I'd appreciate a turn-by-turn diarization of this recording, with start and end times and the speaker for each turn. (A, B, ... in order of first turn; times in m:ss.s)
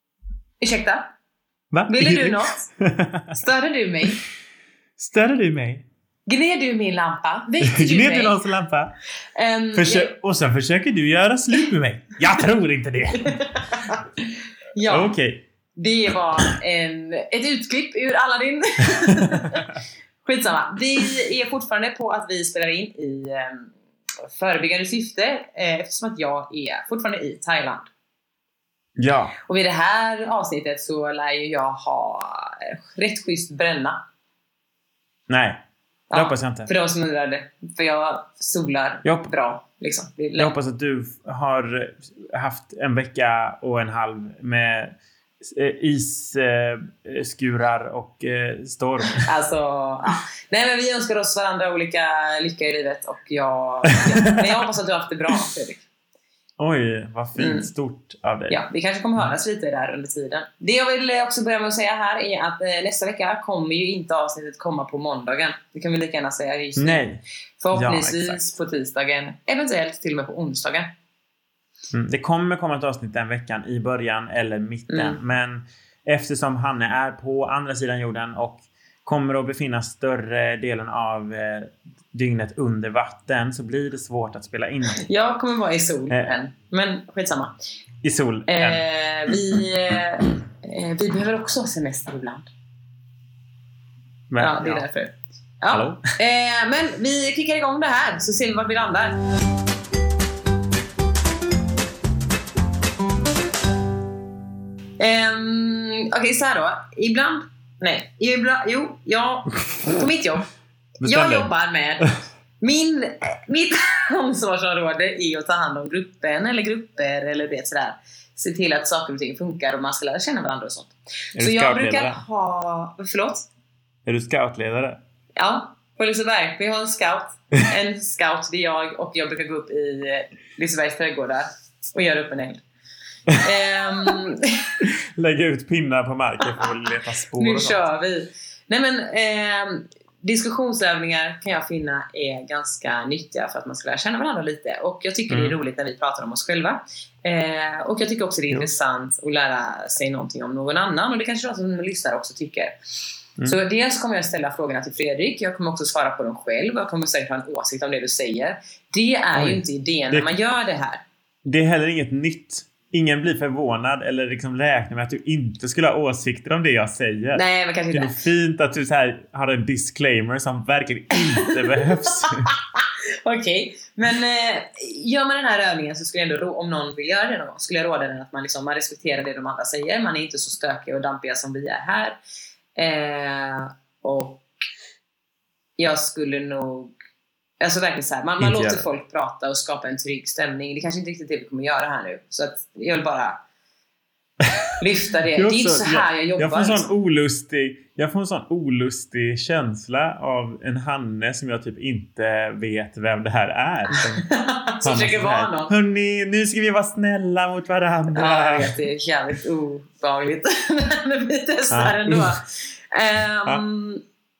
0:00.6-0:01.1 A
0:01.7-0:03.4 B
0:01.9-0:02.7 A
0:03.3-0:04.2 A
0:05.0-0:05.8 B
0:06.3-0:08.4 A
0:07.6-0:08.9 B
0:09.3-0:10.1 A
0:09.7-0:13.5 B
0:13.2-0:14.0 A
0:14.7-0:15.1 A
0:14.9-0:15.4 B
0:15.8-0:23.7 A
0:19.0-0:19.6 B
0:24.3-0:27.9 A
0:29.0-0:29.3 B
0:29.4-0:34.0 A
0:35.3-0:35.6 B
0:36.1-0:40.6 A
0:36.1-0:36.7 B
0:39.0-0:39.3 B
0:40.4-0:49.3 B
0:49.2-0:55.8 A
0:56.6-0:58.6 B
0:57.4-0:57.7 A
0:58.5-1:07.0 A
1:06.8-1:08.5 B
1:07.6-1:10.9 A
1:11.9-1:25.0 B
1:14.9-1:15.2 A
1:25.0-1:27.5 A
1:28.0-1:28.8 B
1:28.5-1:32.5 A
1:34.3-1:34.9 B
1:34.4-1:39.2 A
1:35.7-1:36.0 B
1:45.0-1:50.5 A
1:49.7-1:50.0 B
1:51.0-1:51.5 B
1:51.0-2:03.5 A
2:01.3-2:02.2 B
2:04.0-2:05.0 B
2:05.4-2:12.6 A
2:13.4-2:14.8 A
2:14.8-2:17.8 B
2:17.4-2:32.8 A
2:25.3-2:25.6 B
2:33.4-2:41.0 A
2:39.4-2:40.3 B
2:41.4-2:52.5 B
2:47.3-2:48.2 A
2:51.2-3:02.2 A
3:02.8-3:04.4 A
3:05.8-3:06.9 A
3:07.6-3:13.4 A
3:08.4-3:08.9 B
3:14.4-3:14.7 B
3:14.8-3:16.9 A
3:15.3-3:24.3 B
3:23.9-3:25.7 A
3:24.8-3:28.7 B
3:28.1-3:34.0 A
3:31.7-3:32.4 B